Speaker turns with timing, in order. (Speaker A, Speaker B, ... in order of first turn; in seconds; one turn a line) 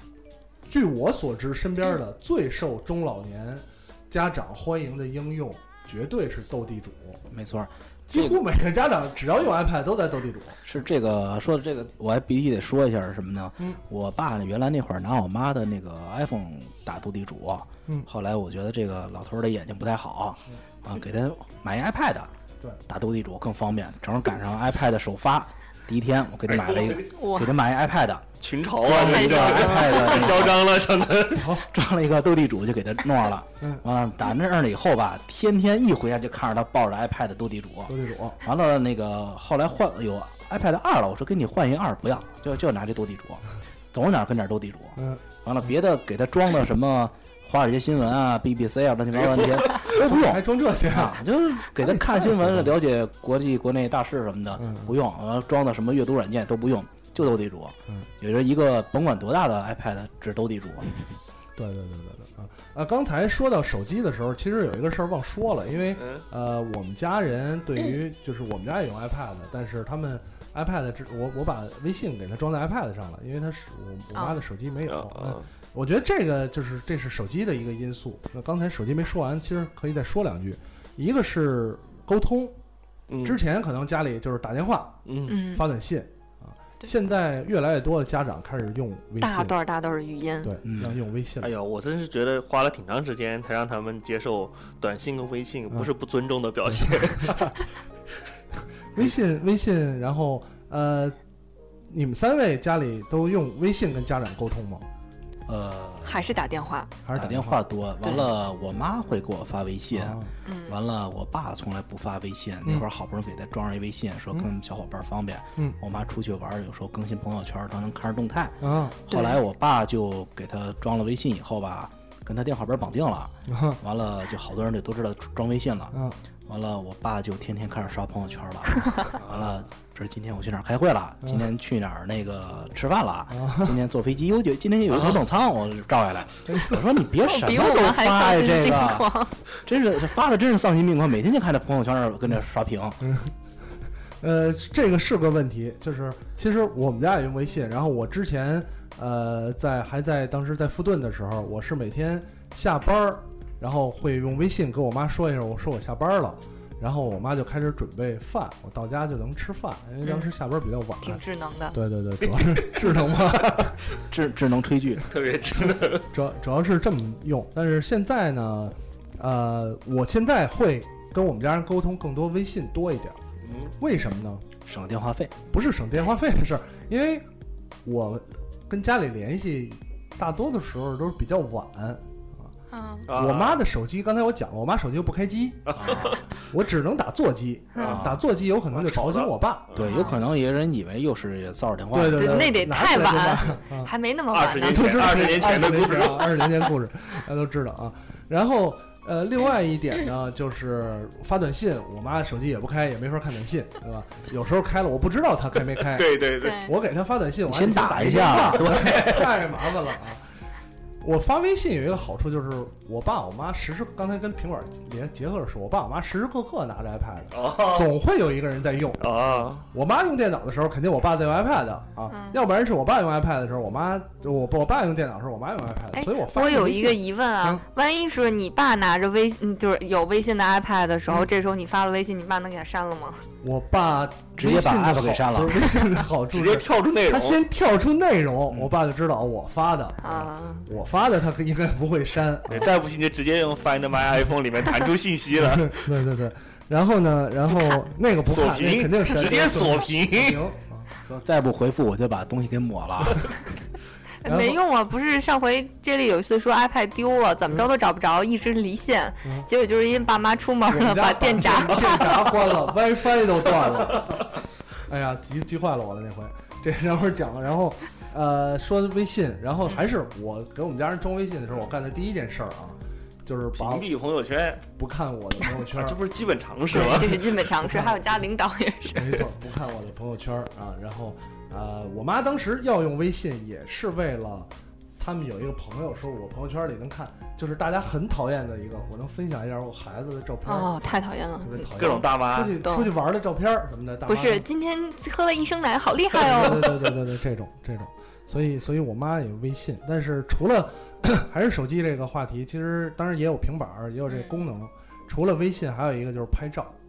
Speaker A: 0.7-7.2
Speaker B: 7.3-8.4
Speaker A: 8.1-10.6
Speaker B: 10.7-22.3
Speaker B: 22.9-28.3
Speaker C: 26.5-27.1
Speaker D: 27.1-27.5
Speaker C: 28.4-31.6
Speaker B: 28.8-30.6
Speaker D: 29.0-30.4
Speaker A: 31.4-31.7
Speaker B: 31.7-61.0
Speaker A: 37.9-38.4
Speaker A: 45.0-45.7
Speaker C: 49.1-49.9
Speaker A: 49.8-52.7
Speaker A: 54.6-55.0
Speaker A: 61.6-82.6
Speaker C: 65.9-66.2
Speaker D: 74.1-74.4
Speaker C: 74.9-75.5
Speaker C: 83.1-83.4
Speaker A: 83.2-89.6
Speaker C: 85.1-85.4
Speaker D: 85.3-85.7
Speaker D: 89.2-90.5
Speaker A: 90.4-91.5
Speaker B: 90.7-91.0
Speaker C: 91.4-97.5
Speaker A: 96.7-97.5
Speaker A: 98.9-101.2
Speaker A: 101.9-104.9
Speaker B: 105.5-106.3
Speaker D: 106.0-106.9
Speaker A: 107.0-107.7
Speaker B: 107.2-126.0
Speaker A: 109.9-110.3
Speaker D: 110.5-110.8
Speaker A: 118.6-119.0
Speaker D: 119.1-119.4
Speaker A: 123.5-123.8
Speaker A: 125.9-126.2
Speaker B: 126.5-139.1
Speaker C: 129.2-129.5
Speaker A: 131.2-131.5
Speaker A: 133.3-133.8
Speaker C: 134.9-135.2
Speaker A: 136.5-136.8
Speaker D: 137.2-139.3
Speaker B: 139.6-143.0
Speaker A: 143.0-143.3
Speaker A: 144.2-163.8
Speaker D: 160.0-160.3
Speaker D: 161.0-161.8
Speaker C: 162.3-162.9
Speaker B: 164.0-165.1
Speaker C: 165.1-166.1
Speaker A: 165.7-173.2
Speaker C: 173.4-173.7
Speaker A: 173.8-174.4
Speaker B: 174.7-175.4
Speaker A: 175.5-177.2
Speaker A: 177.8-182.5
Speaker D: 182.7-183.1
Speaker C: 183.1-183.6
Speaker A: 183.1-189.7
Speaker C: 185.7-186.2
Speaker B: 185.8-186.2
Speaker B: 187.8-188.2
Speaker C: 188.7-189.9
Speaker B: 189.8-192.5
Speaker D: 189.8-190.2
Speaker A: 191.9-193.9
Speaker D: 192.1-195.2
Speaker C: 194.3-196.6
Speaker A: 194.7-210.2
Speaker C: 205.8-206.6
Speaker D: 206.4-206.7
Speaker B: 207.5-209.1
Speaker C: 208.7-209.3
Speaker A: 211.0-227.6
Speaker C: 217.3-217.9
Speaker C: 219.0-219.6
Speaker D: 222.1-222.4
Speaker D: 225.9-233.2
Speaker A: 233.4-242.7
Speaker B: 234.4-235.8
Speaker C: 236.3-237.4
Speaker D: 240.0-240.7
Speaker C: 242.5-245.9
Speaker A: 245.4-251.1
Speaker C: 248.3-250.4
Speaker B: 251.1-253.3
Speaker D: 254.2-262.3
Speaker A: 254.2-254.6
Speaker A: 260.7-264.3
Speaker A: 264.9-273.9
Speaker C: 273.5-274.6
Speaker A: 274.8-276.0
Speaker C: 275.7-277.3
Speaker D: 276.7-279.2
Speaker A: 276.7-278.0
Speaker A: 278.9-294.5
Speaker D: 290.5-292.1
Speaker C: 291.8-292.6
Speaker D: 292.6-292.9
Speaker D: 294.1-296.8
Speaker A: 296.1-306.8
Speaker D: 304.1-304.4